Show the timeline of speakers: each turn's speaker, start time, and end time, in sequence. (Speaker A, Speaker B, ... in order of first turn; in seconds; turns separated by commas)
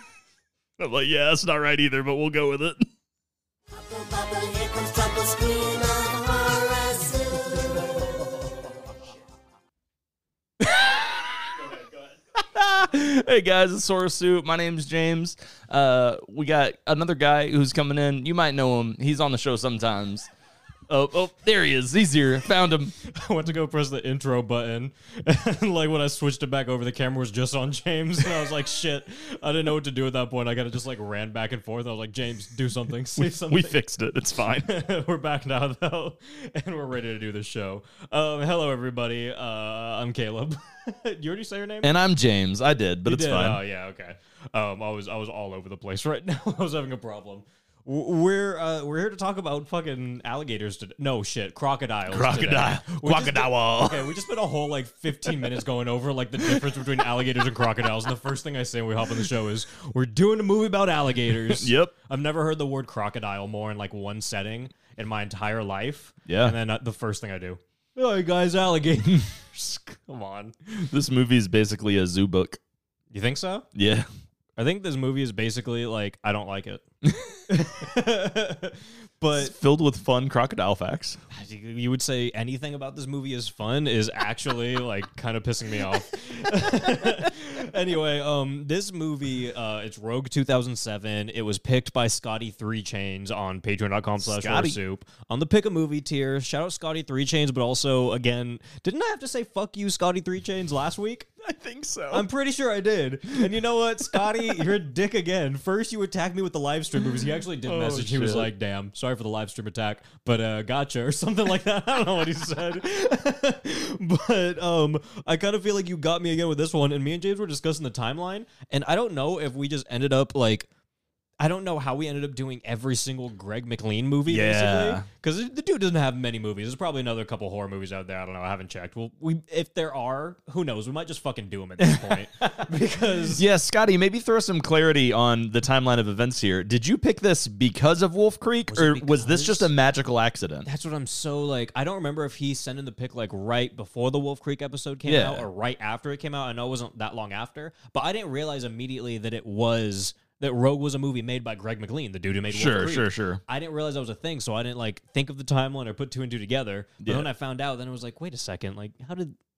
Speaker A: 0.8-2.9, Speaker B: 3.7-7.9, Speaker A: 10.6-11.6, Speaker A: 12.3-20.3, Speaker A: 20.9-22.9, Speaker C: 23.0-33.8, Speaker A: 33.2-34.7, Speaker C: 34.6-42.0, Speaker A: 41.8-43.6, Speaker C: 43.1-70.5, Speaker A: 52.1-54.1, Speaker A: 61.5-61.9, Speaker A: 66.3-66.5, Speaker A: 70.7-72.6, Speaker C: 73.1-73.7, Speaker A: 73.8-74.1, Speaker C: 74.6-76.8, Speaker C: 77.5-79.5, Speaker A: 79.3-81.2, Speaker C: 81.3-101.3, Speaker A: 94.2-94.8, Speaker A: 101.4-102.2, Speaker C: 102.1-120.7, Speaker A: 107.6-108.5, Speaker C: 121.4-133.4, Speaker A: 124.3-125.1, Speaker A: 131.8-132.2, Speaker A: 133.3-140.7, Speaker C: 138.7-139.7, Speaker C: 140.6-159.3, Speaker A: 145.1-145.5, Speaker A: 152.5-153.4, Speaker A: 157.0-157.3